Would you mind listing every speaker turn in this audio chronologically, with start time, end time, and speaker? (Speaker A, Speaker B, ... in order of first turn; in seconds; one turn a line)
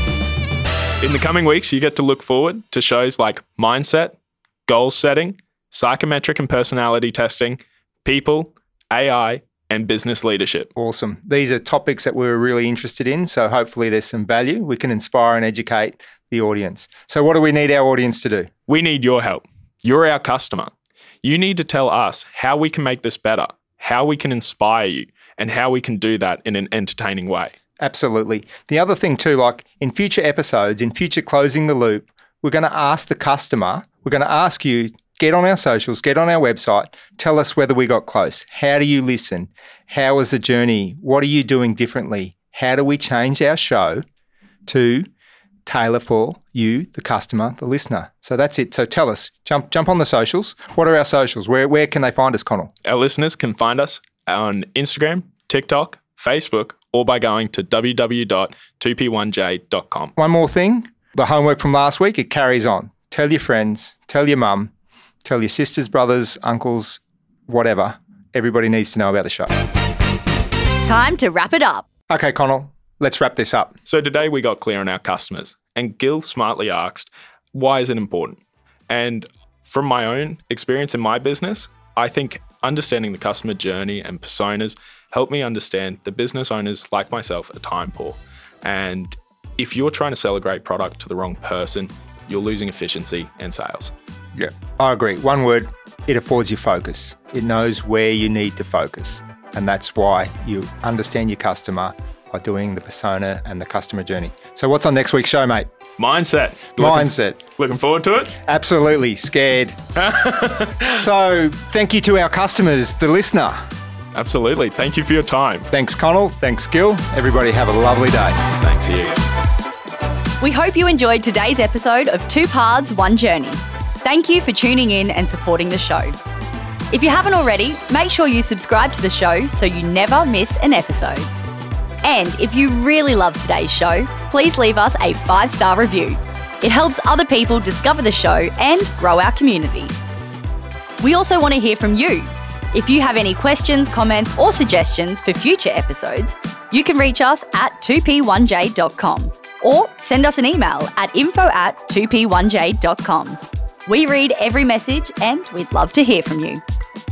Speaker A: 1.0-10.7
Speaker B: 10.8-18.5
Speaker A: 18.7-20.7
Speaker A: 21.2-27.5
Speaker B: 27.8-44.0
Speaker B: 44.6-45.1
Speaker B: 45.6-52.7
Speaker A: 52.8-60.1
Speaker B: 60.2-64.7
Speaker B: 65.2-69.5
Speaker C: 70.8-71.8
Speaker B: 72.1-73.7
Speaker A: 73.8-93.9
Speaker B: 94.3-105.7
Speaker A: 106.0-108.4
Speaker B: 106.8-107.4
Speaker B: 108.5-109.8
Speaker A: 110.0-111.0
Speaker B: 110.9-113.6
Speaker A: 114.1-115.7
Speaker B: 115.7-118.4
Speaker A: 118.6-119.2
Speaker C: 120.4-126.2
Speaker C: 126.9-131.3
Speaker C: 132.0-139.9
Speaker C: 141.0-156.6